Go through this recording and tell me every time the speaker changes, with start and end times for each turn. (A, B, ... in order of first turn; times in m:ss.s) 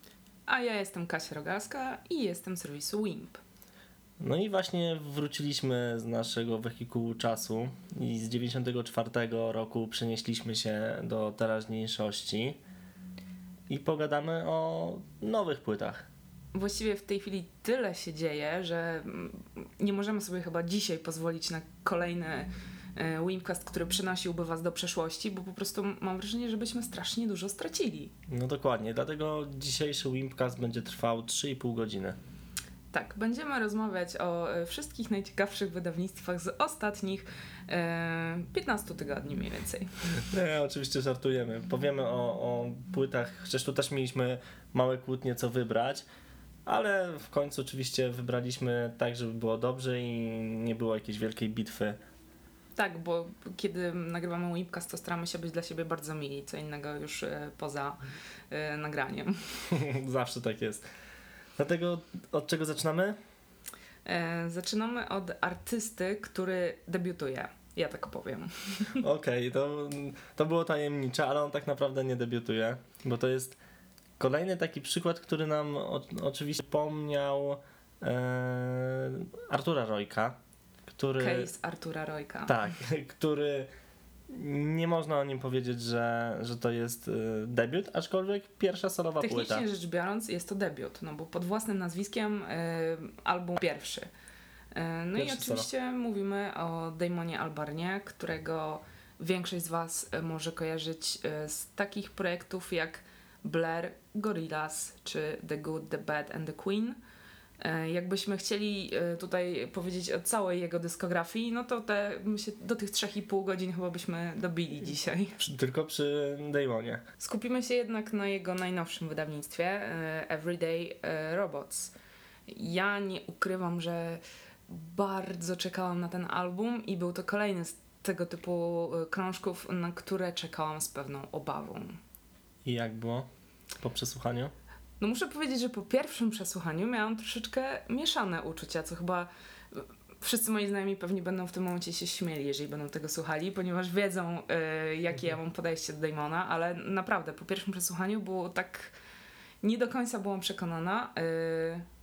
0:00.5-0:03.4 A
0:04.2-0:12.6 B
0:13.7-0:16.1 B
0:16.5-0:28.1 A
0:28.3-0:32.2 B
0:32.9-0:39.9 A
0:40.2-0:46.0 B
0:46.6-0:52.0 B
0:52.8-0:59.4 A
0:59.7-1:00.8 B
1:01.6-1:03.2 B
1:04.0-1:09.0 A
1:09.0-1:13.6 B
1:14.2-1:20.4 B
1:20.9-1:21.5 B
1:21.2-1:22.5 A
1:22.4-1:23.7 B
1:24.3-1:29.6 B
1:29.2-1:34.1 A
1:34.7-1:47.0 A
1:35.2-1:35.7 B
1:47.6-1:55.4 A
1:55.4-1:57.0 B
1:57.2-2:01.9 A
2:02.5-2:12.0 A
2:12.6-2:14.5 B
2:15.0-2:28.9 A
2:29.6-2:31.8 A